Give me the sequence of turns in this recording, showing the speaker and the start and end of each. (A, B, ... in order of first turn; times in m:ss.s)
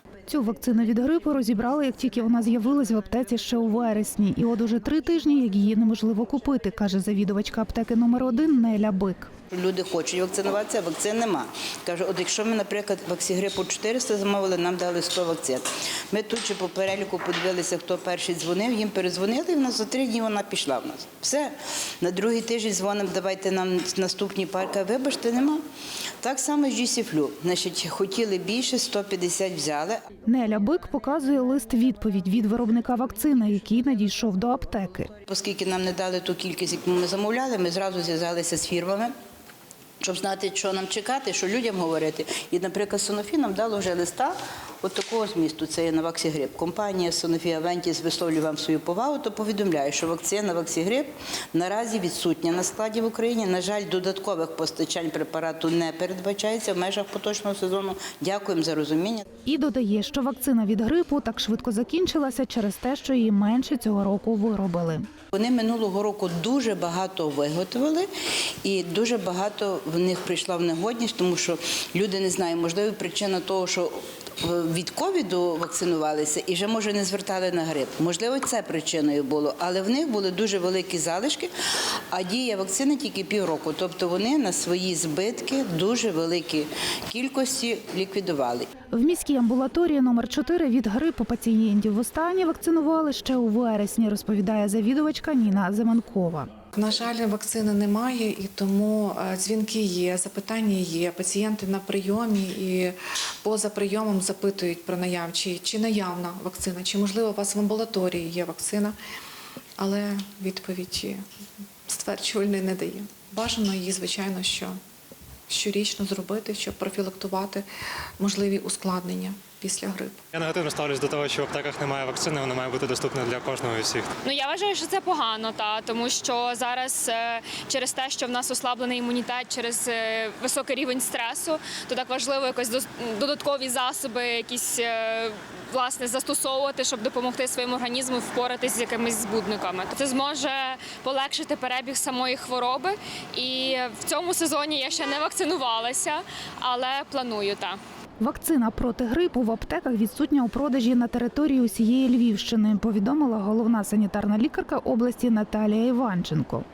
0:00.3-0:09.3 A
0:09.5-0:25.6 B
0:26.2-0:30.0 B
0:30.3-0:35.1 A
0:35.3-0:39.1 B
0:40.0-0:59.2 B
0:59.5-1:05.1 A
1:05.3-1:08.1 B
1:08.6-1:21.5 B
1:22.1-1:28.7 B
1:28.9-1:36.5 A
1:36.7-1:49.0 C
1:49.8-1:51.2 C
1:51.9-1:54.8 C
1:55.5-1:57.6 C
1:58.2-2:00.2 C
2:00.3-2:04.1 D
2:04.2-2:27.8 E
2:28.2-2:36.6 A